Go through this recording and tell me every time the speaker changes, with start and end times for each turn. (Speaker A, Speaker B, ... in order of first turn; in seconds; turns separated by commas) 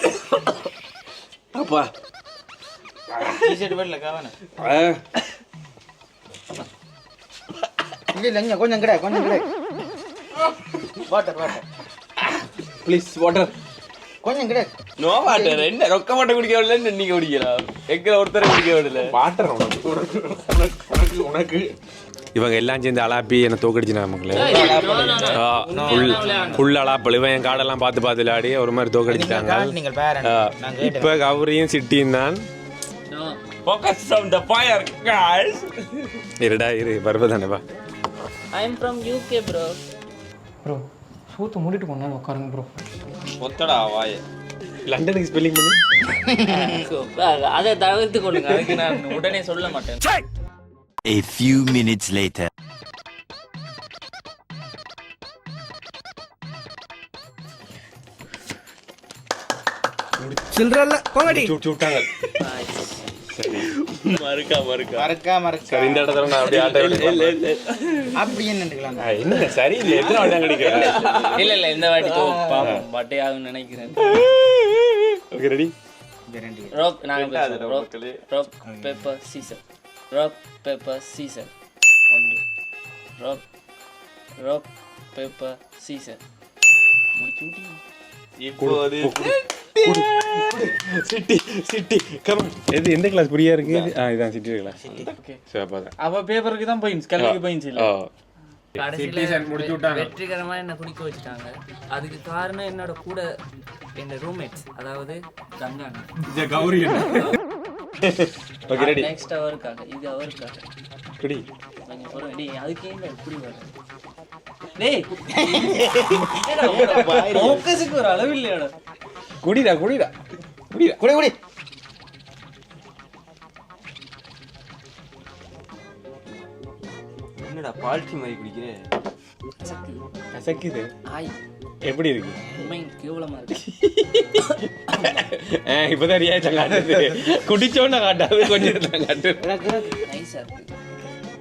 Speaker A: 1.5-1.9, Speaker A: 3.1-3.6, Speaker B: 3.3-4.4, Speaker A: 4.5-5.1, Speaker B: 8.1-9.5, Speaker B: 11.0-11.6, Speaker A: 12.8-13.5, Speaker B: 14.2-15.7, Speaker C: 15.0-19.1, Speaker A: 19.1-21.7, Speaker A: 22.3-24.7, Speaker D: 24.3-26.6, Speaker C: 24.4-25.4, Speaker B: 24.4-26.6, Speaker A: 25.3-32.4, Speaker B: 29.1-31.2, Speaker D: 33.1-33.4, Speaker C: 33.6-36.1, Speaker A: 36.4-37.6, Speaker D: 38.5-39.8, Speaker E: 40.6-42.8, Speaker C: 43.4-44.2, Speaker A: 44.8-45.8, Speaker B: 46.3-46.7, Speaker D: 46.5-50.0, Speaker F: 51.0-52.5, Speaker F: 60.5-61.4, Speaker A: 61.2-62.1, Speaker D: 62.4-63.1, Speaker A: 63.3-63.7, Speaker C: 63.6-65.1, Speaker B: 64.9-66.3, Speaker A: 65.7-67.4, Speaker C: 66.4-68.2, Speaker B: 68.1-69.5, Speaker A: 69.0-71.3, Speaker C: 69.8-72.8, Speaker D: 71.3-74.2, Speaker A: 72.5-72.8, Speaker A: 75.3-75.7, Speaker B: 76.3-76.8, Speaker D: 76.7-81.5, Speaker C: 77.1-78.2, Speaker B: 78.7-79.0, Speaker D: 82.1-82.4, Speaker D: 83.2-83.4, Speaker D: 84.4-86.2, Speaker D: 87.2-87.8, Speaker C: 88.4-89.4, Speaker A: 88.6-94.8, Speaker C: 93.6-93.9, Speaker B: 94.8-95.1, Speaker C: 94.9-95.2, Speaker A: 95.5-95.9, Speaker E: 96.0-97.9, Speaker A: 97.1-98.1, Speaker D: 98.7-103.4, Speaker A: 98.8-100.1, Speaker D: 103.9-106.1, Speaker A: 106.2-107.3, Speaker A: 108.0-109.1, Speaker D: 108.7-110.6, Speaker A: 111.2-111.5, Speaker D: 111.8-113.7, Speaker D: 114.8-118.7, Speaker B: 115.3-117.7, Speaker A: 116.8-117.6, Speaker A: 119.4-120.1, Speaker A: 120.7-121.0, Speaker B: 121.0-121.3, Speaker C: 127.4-128.8, Speaker D: 129.6-130.0, Speaker A: 130.3-130.9, Speaker D: 131.1-131.3, Speaker A: 131.8-132.4, Speaker D: 132.6-133.6, Speaker A: 133.8-139.4, Speaker B: 139.4-140.0, Speaker D: 140.0-140.7